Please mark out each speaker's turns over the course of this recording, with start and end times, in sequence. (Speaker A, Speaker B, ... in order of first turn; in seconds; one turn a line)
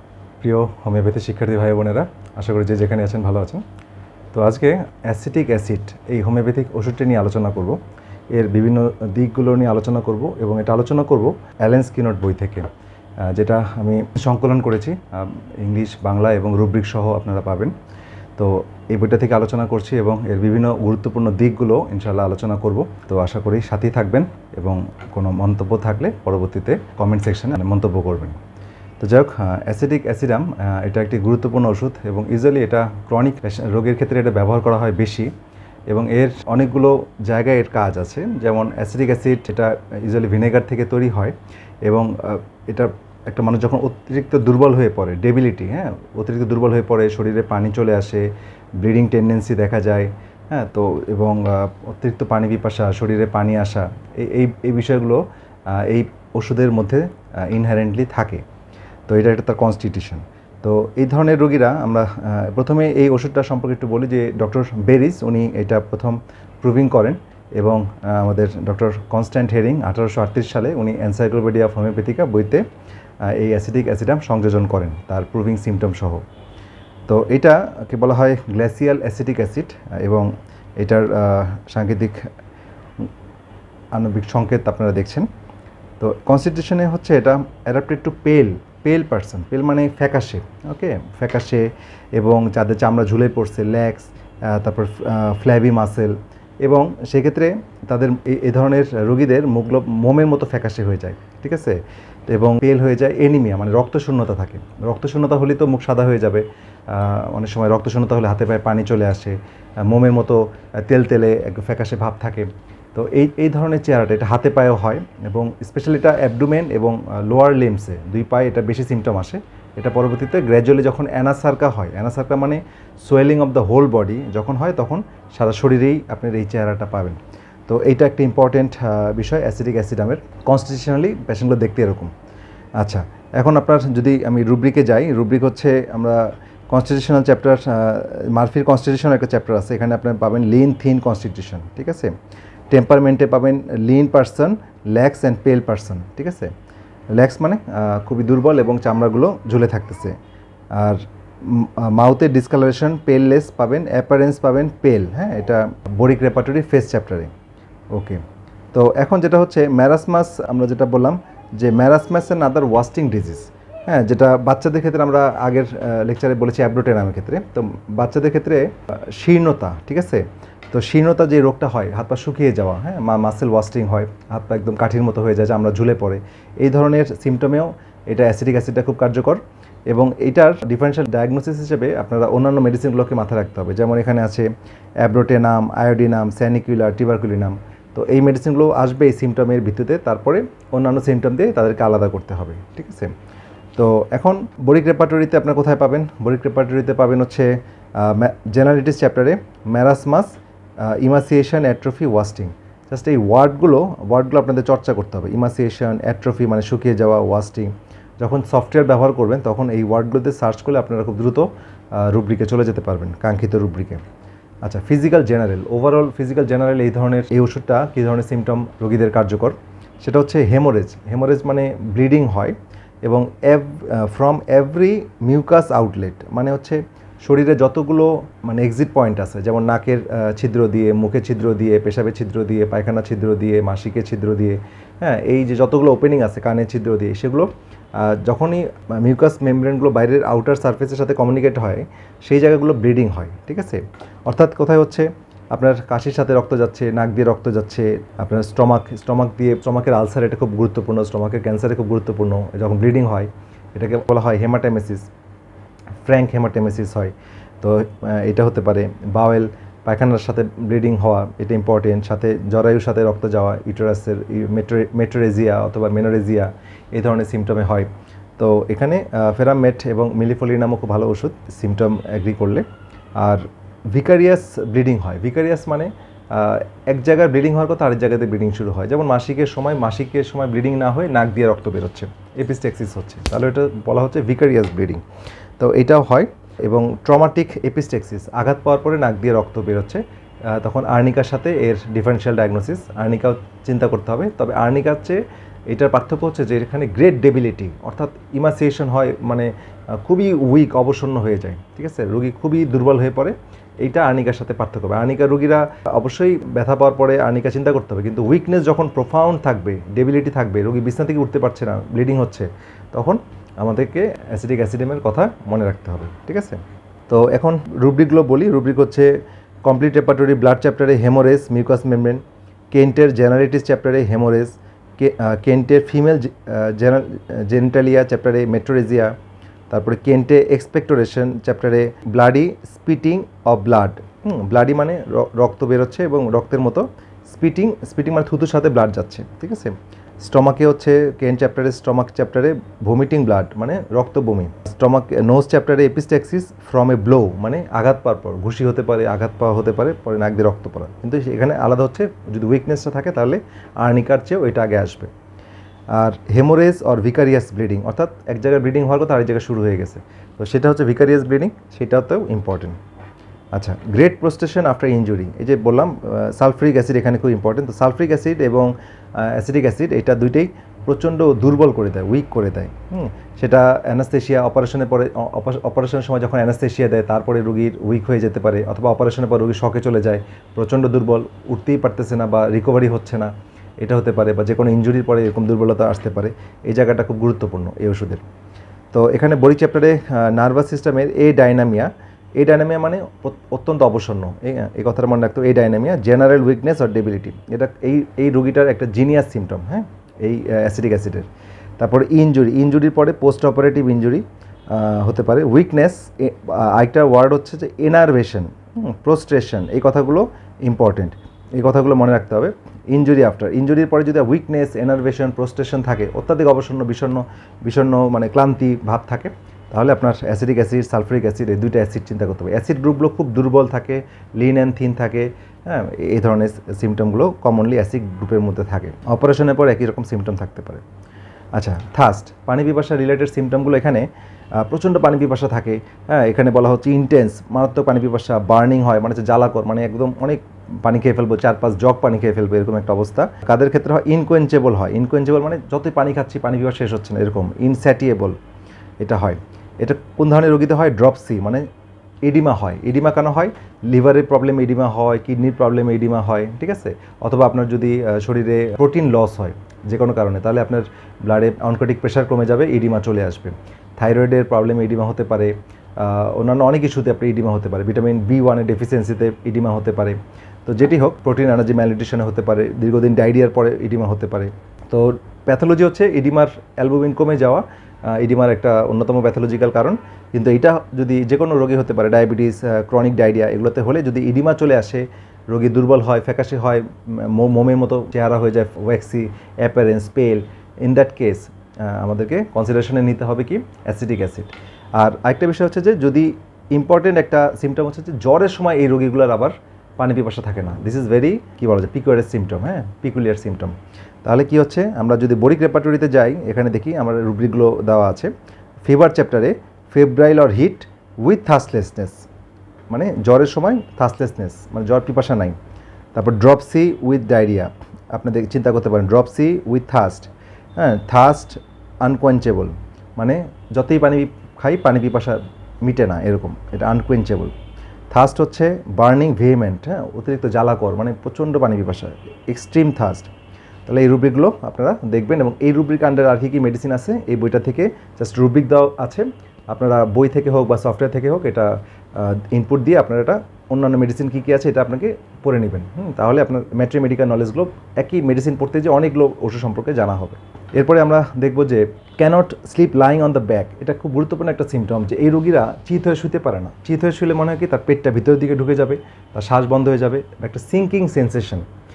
Speaker A: 0.4-3.6
Speaker A: 4.3-7.8
Speaker A: 8.3-12.7
Speaker A: 13.3-17.7
Speaker A: 18.4-28.4
Speaker A: 29.0-35.3
Speaker A: 35.9-48.3
Speaker A: 48.8-58.4
Speaker A: 59.1-72.6
Speaker A: 73.3-76.2
Speaker A: 77.1-82.2
Speaker A: 83.9-85.3
Speaker A: 86.0-132.1
Speaker A: 132.8-142.1
Speaker A: 142.7-146.5
Speaker A: 147.2-150.2
Speaker A: 150.7-157.3
Speaker A: 157.9-158.2
Speaker A: 158.7-184.5
Speaker A: 185.0-193.1
Speaker A: 193.8-214.0
Speaker A: 214.7-255.1
Speaker A: 256.0-272.6
Speaker A: 273.2-285.0
Speaker A: 285.6-322.2
Speaker A: 322.7-329.1
Speaker A: 329.7-355.1
Speaker A: 355.9-362.8
Speaker A: 363.5-388.2
Speaker A: 388.9-401.3
Speaker A: 401.8-430.8
Speaker A: 431.6-448.4
Speaker A: 449.0-451.7
Speaker A: 452.2-508.3
Speaker A: 508.9-512.3
Speaker A: 512.9-515.6
Speaker A: 516.1-527.5
Speaker A: 528.1-533.3
Speaker A: 533.9-561.7